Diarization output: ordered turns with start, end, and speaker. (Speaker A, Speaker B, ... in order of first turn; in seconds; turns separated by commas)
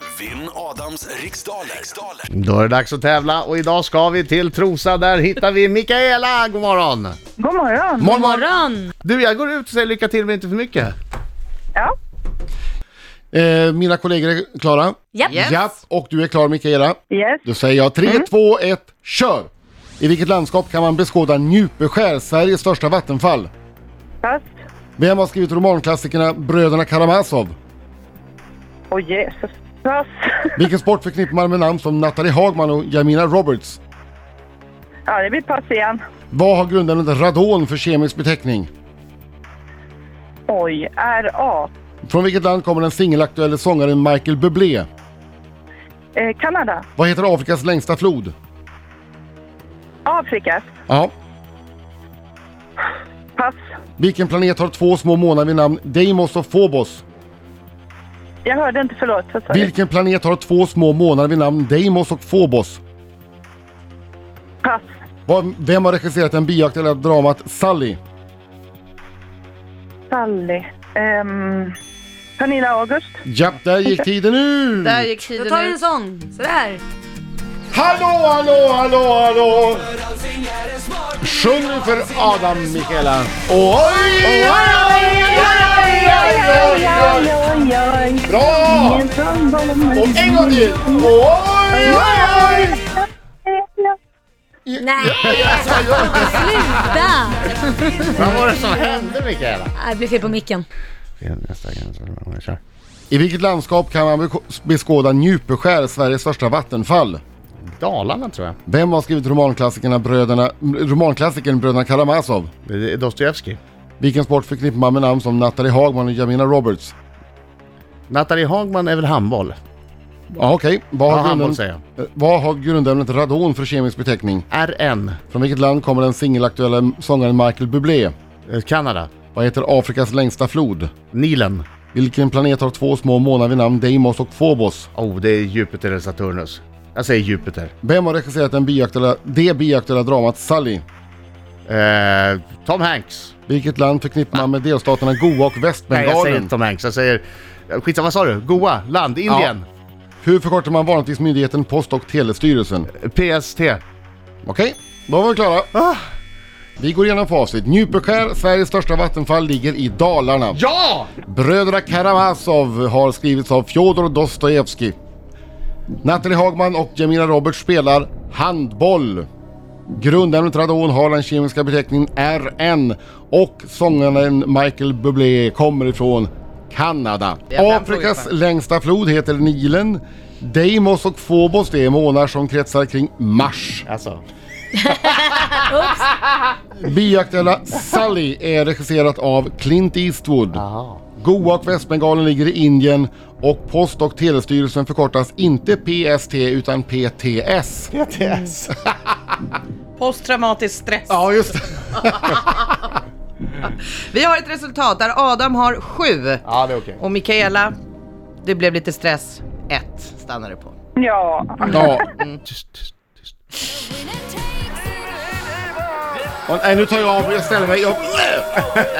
Speaker A: 0.1-2.2, Speaker B: 2.3-7.2, Speaker C: 7.4-8.1, Speaker B: 8.0-8.5, Speaker D: 8.0-8.9, Speaker B: 9.0-10.9, Speaker E: 13.3-23.5, Speaker F: 15.3-15.7, Speaker C: 17.1-17.4, Speaker E: 25.0-27.5, Speaker C: 28.9-30.5, Speaker E: 30.6-33.8, Speaker C: 35.1-36.0, Speaker E: 36.3-38.7, Speaker C: 40.5-41.7, Speaker E: 42.0-44.9, Speaker C: 46.1-46.8, Speaker E: 47.0-48.3, Speaker C: 50.0-50.7, Speaker E: 54.0-57.0, Speaker C: 58.4-59.7, Speaker E: 59.5-62.8, Speaker E: 65.2-68.0, Speaker C: 70.1-71.7, Speaker C: 72.4-73.2, Speaker E: 73.2-75.1, Speaker F: 74.8-75.8, Speaker D: 75.2-76.8, Speaker E: 77.7-79.9, Speaker E: 81.2-87.3, Speaker D: 84.4-86.5, Speaker C: 84.5-91.1, Speaker E: 88.3-89.0, Speaker E: 89.9-92.8, Speaker C: 91.7-94.0, Speaker D: 91.9-92.7, Speaker E: 94.7-97.0, Speaker D: 94.8-98.4, Speaker B: 98.2-99.7, Speaker D: 99.7-100.6, Speaker B: 101.2-102.6, Speaker E: 103.1-107.2, Speaker B: 107.7-108.6, Speaker E: 108.7-112.5, Speaker B: 112.6-113.6, Speaker E: 114.0-116.9, Speaker B: 118.1-119.6, Speaker E: 120.3-124.4, Speaker B: 121.1-121.8, Speaker B: 124.5-125.2, Speaker E: 125.3-128.1, Speaker B: 128.5-129.1, Speaker E: 129.3-130.9, Speaker B: 131.1-131.7, Speaker E: 131.9-134.9, Speaker B: 134.9-137.7, Speaker E: 137.8-140.8, Speaker B: 141.7-143.3, Speaker E: 143.5-146.5, Speaker B: 145.9-149.7, Speaker E: 149.3-149.5, Speaker E: 150.2-152.9, Speaker B: 152.9-153.8, Speaker E: 154.4-155.7, Speaker E: 156.8-160.6, Speaker B: 160.5-161.1, Speaker E: 161.2-164.9, Speaker E: 166.0-169.3, Speaker E: 169.9-183.9, Speaker F: 177.5-178.3, Speaker B: 183.8-184.2, Speaker D: 184.9-185.9, Speaker E: 186.8-190.6, Speaker B: 190.5-191.0, Speaker E: 191.2-197.9, Speaker B: 197.9-198.7, Speaker F: 200.0-201.5, Speaker E: 201.1-202.9, Speaker F: 203.6-206.4, Speaker B: 206.4-207.0, Speaker F: 207.0-207.7, Speaker F: 208.4-210.8, Speaker C: 211.0-211.9, Speaker F: 211.6-212.4, Speaker E: 211.6-212.1, Speaker E: 216.5-218.6